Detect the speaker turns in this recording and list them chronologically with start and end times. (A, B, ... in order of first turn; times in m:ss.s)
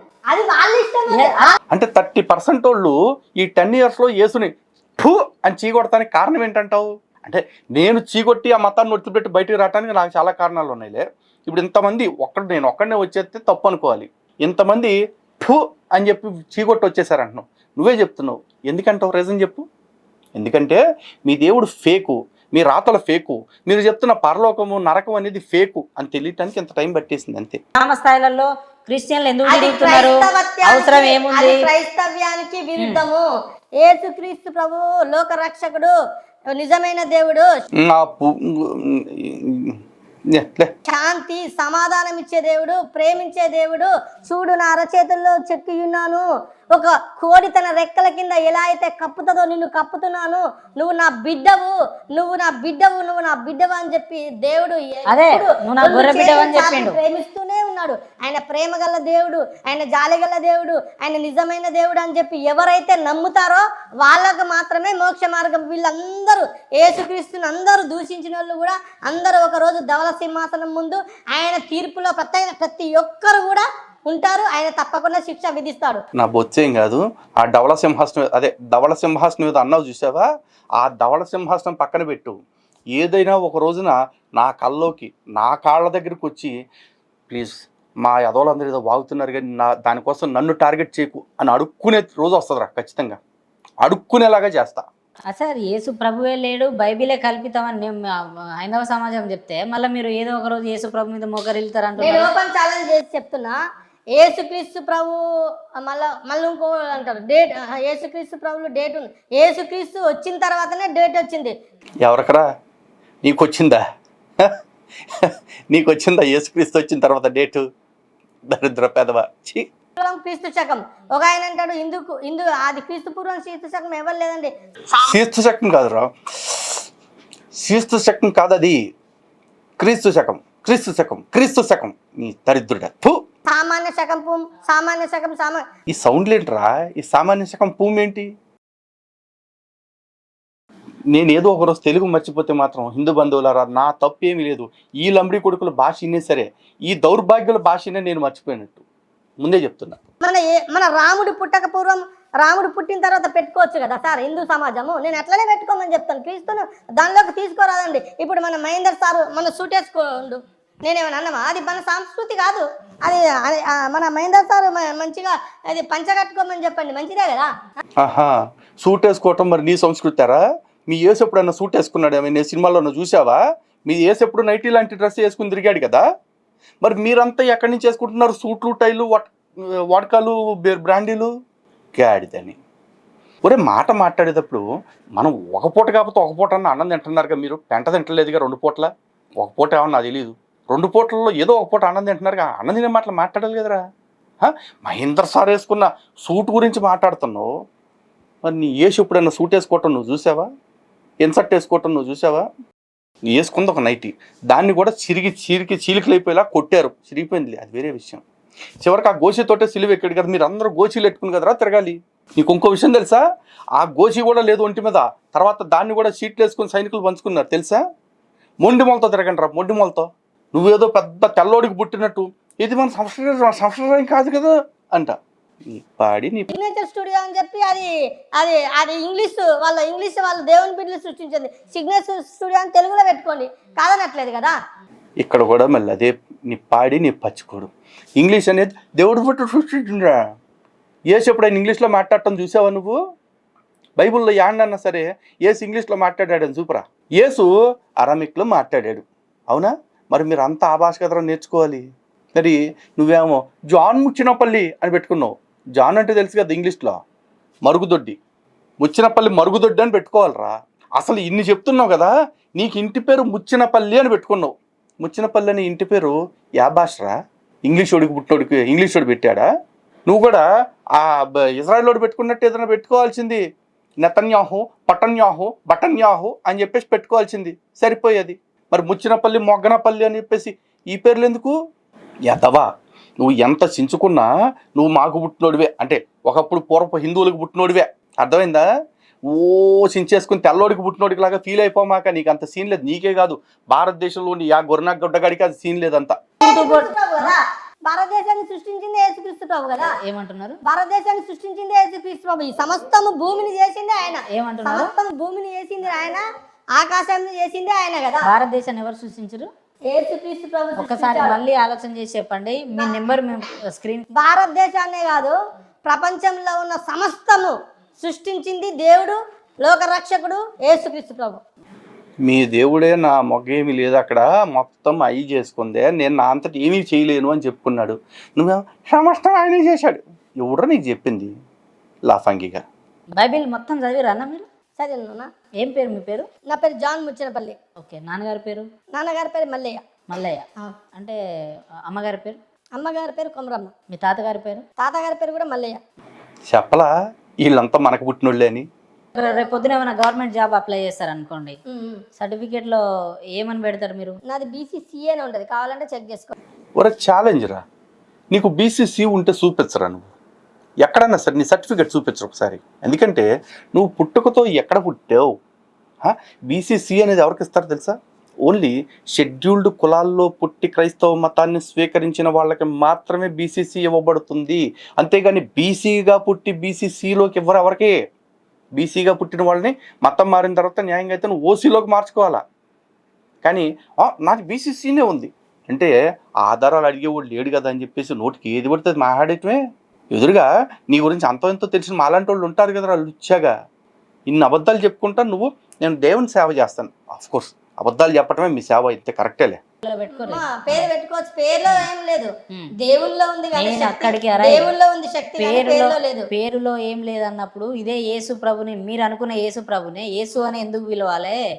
0:00.3-0:01.5 A
0:01.1-0:01.5 B
0:01.7-0:19.6 C
0:20.4-0:27.6 C
0:27.8-0:31.6 B
0:29.5-0:33.3 A
0:33.8-0:35.9 A
0:36.6-0:37.5 A
0:37.8-0:39.8 C
0:40.3-0:40.7 C
0:40.9-1:16.0 A
0:55.1-0:57.0 B
1:16.2-1:20.3 C
1:20.8-1:22.4 C
1:22.9-1:26.5 C
1:27.3-1:33.2 C
1:33.8-1:34.8 C
1:35.3-1:42.3 B
1:42.0-1:43.6 A
1:44.2-1:45.2 A
1:45.8-1:51.5 A
1:52.0-1:52.5 C
1:53.2-1:53.8 C
1:55.1-1:57.6 C
1:58.5-1:59.7 C
2:00.0-2:04.5 A
2:05.0-2:06.8 C
2:07.6-2:08.8 C
2:09.8-2:13.2 C
2:13.5-2:15.6 A
2:15.9-2:18.3 C
2:21.1-2:28.8 C
2:29.4-2:30.0 C
2:30.2-2:47.5 A
2:48.0-2:56.0 C
2:56.8-2:59.3 C
2:59.9-3:01.3 C
3:02.0-3:02.6 C
3:03.4-3:04.6 C
3:05.2-3:13.8 C
3:14.4-3:17.5 C
3:18.4-3:20.5 C
3:21.2-3:22.5 C
3:23.3-3:28.2 C
3:28.8-3:33.2 C
3:33.8-3:37.8 C
3:38.6-3:45.2 C
3:45.7-3:46.5 C
3:46.5-3:54.6 A
3:55.2-4:00.2 C
4:01.1-4:03.0 C
4:04.0-4:07.5 C
4:08.0-4:17.0 C
4:17.6-4:18.2 C
4:18.8-4:29.5 C
4:30.1-4:30.4 C
4:31.0-4:33.4 C
4:34.0-4:41.6 C
4:42.3-4:42.7 C
4:43.2-4:48.6 C
4:49.3-4:56.2 C
4:56.4-4:59.9 A
4:56.4-4:57.3 B
4:59.8-5:00.6 B
5:00.6-5:06.2 A
5:04.3-5:04.9 B
5:06.8-5:08.3 A
5:08.2-5:09.5 B
5:09.9-5:11.4 A
5:10.8-5:14.1 B
5:14.2-5:21.4 A
5:22.2-5:31.3 C
5:32.1-5:32.6 C
5:33.2-5:34.4 B
5:34.8-5:35.3 A
5:35.6-5:36.3 B
5:36.5-5:37.6 A
5:37.8-5:38.7 B
5:39.0-5:39.8 A
5:40.1-5:40.4 B
5:41.9-5:42.4 B
5:42.8-5:43.7 A
5:43.9-5:44.6 B
5:44.8-5:45.8 A
5:46.5-5:46.9 C
5:47.4-5:48.7 C
5:49.2-5:51.6 B
5:51.7-5:52.0 A
5:52.2-5:52.8 B
5:53.4-5:54.2 B
5:54.3-5:56.4 A
5:56.8-5:57.6 C
5:58.3-6:00.1 C
6:00.8-6:05.3 C
6:06.0-6:17.9 C
6:18.8-6:22.4 C
6:23.4-6:25.9 C
6:26.4-6:29.6 C
6:30.1-6:33.5 C
6:34.3-6:39.6 C
6:39.8-6:40.9 B
6:40.1-6:46.3 A
6:43.6-6:44.7 B
6:45.4-6:51.4 B